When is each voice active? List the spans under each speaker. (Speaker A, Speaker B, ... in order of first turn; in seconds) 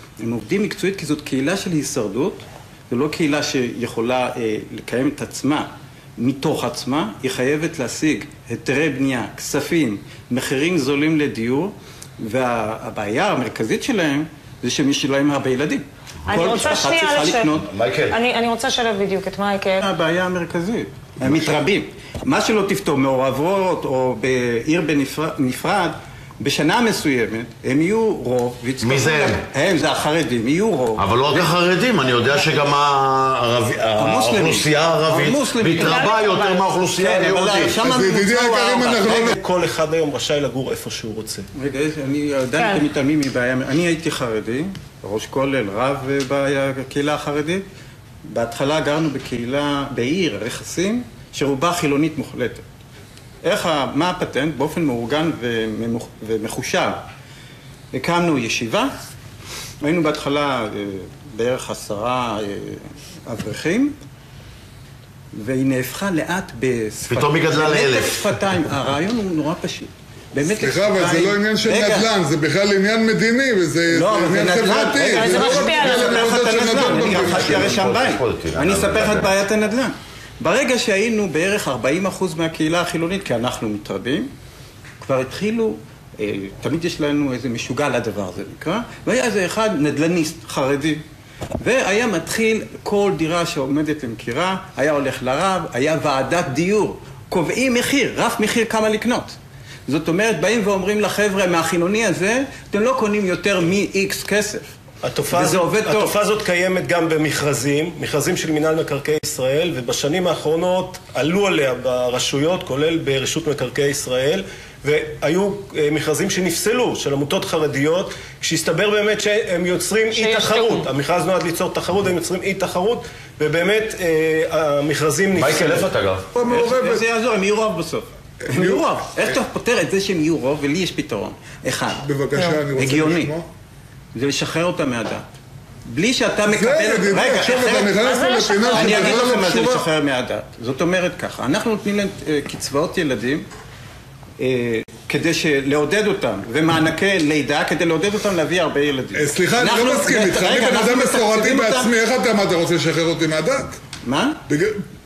Speaker A: 0.2-17.7, 19.8-31.5, 34.0-36.2, 37.0-39.3, 41.5-47.6, 48.2-52.6, 53.4-57.0, 57.9-58.9, 59.8-63.9, 65.3-72.1, 73.9-84.3, 85.0-91.0, 91.6-99.3, 99.9-104.7, 105.3-106.2, 126.4-132.0, 132.7-133.3, 134.1-135.3, 135.8-143.4, 144.4-151.9, 154.0-154.4
Speaker B: 16.3-19.9, 35.8-36.7, 42.5-42.8, 75.0-76.3, 120.1-120.9, 138.0-139.2
Speaker C: 16.3-16.7, 17.6-18.2, 28.8-29.4, 31.0-37.8, 67.0-68.3, 77.0-79.3, 125.3-126.2
Speaker D: 21.2-21.5, 37.8-39.4, 70.5-77.8, 126.3-127.0, 128.4-128.8, 132.0-133.4, 136.5-139.8, 149.1-153.8, 154.5-154.8
Speaker E: 39.1-41.5, 105.0-125.9